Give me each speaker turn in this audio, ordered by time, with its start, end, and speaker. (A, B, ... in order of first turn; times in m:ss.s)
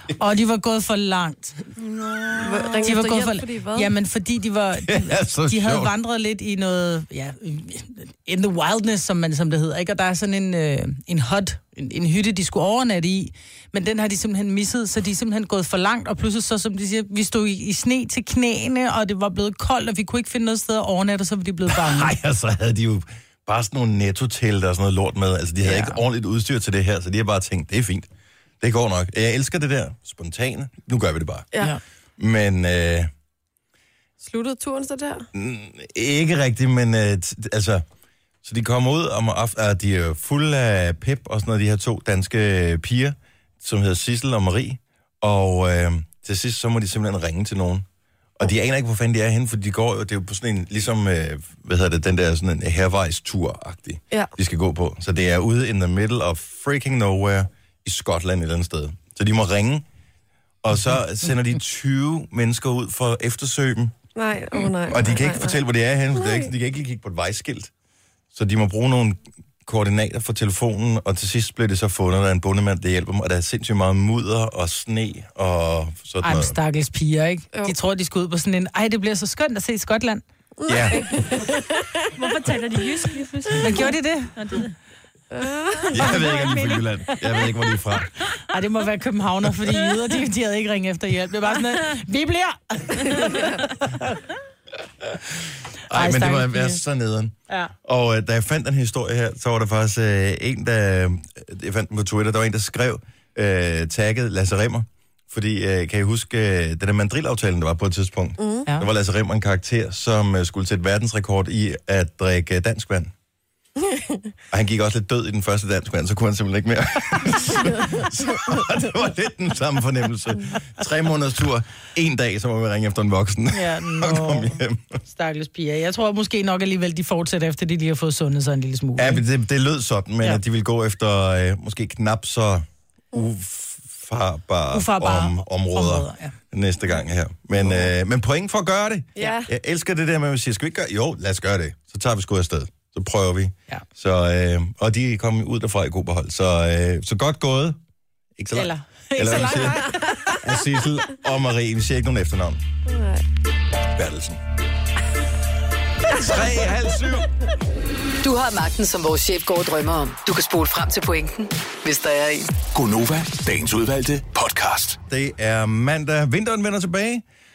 0:00.2-0:01.6 A
0:01.8-0:02.9 B
0:02.4-0:03.9 C
0:02.8-0:22.1 A
0:04.8-0:05.9 D
0:21.7-0:28.1 D
0:25.6-0:26.0 A
0:28.6-0:31.5 D
0:32.2-0:33.1 D
0:34.2-0:35.3 C
0:35.3-0:37.8 D
0:38.4-0:47.9 D
0:48.4-0:59.9 D
1:00.6-1:03.9 D
1:04.2-1:05.6 C
1:04.9-1:07.7 D
1:06.1-1:06.5 C
1:08.3-1:16.6 D
1:16.2-1:20.2 A
1:20.6-1:22.0 C
1:20.7-1:21.5 D
1:22.1-1:24.7 B
1:23.6-1:24.3 A
1:25.3-1:26.1 C
1:25.9-1:28.1 D
1:25.9-1:27.4 A
1:28.4-1:34.2 A
1:35.1-1:53.1 D
1:35.9-1:36.8 A
1:48.4-1:48.6 C
1:53.9-1:54.2 C
1:54.5-2:05.0 D
2:03.5-2:09.2 A
2:09.0-2:27.8 D
2:14.7-2:16.4 A
2:17.6-2:17.9 C
2:19.2-2:19.5 C
2:28.4-2:32.6 D
2:28.5-2:30.1 A
2:29.8-2:30.3 C
2:32.9-2:33.2 C
2:33.9-2:34.4 D
2:36.1-2:36.5 C
2:36.1-2:37.3 D
2:38.2-2:42.5 E
2:42.7-2:45.0 F
2:45.1-2:47.2 D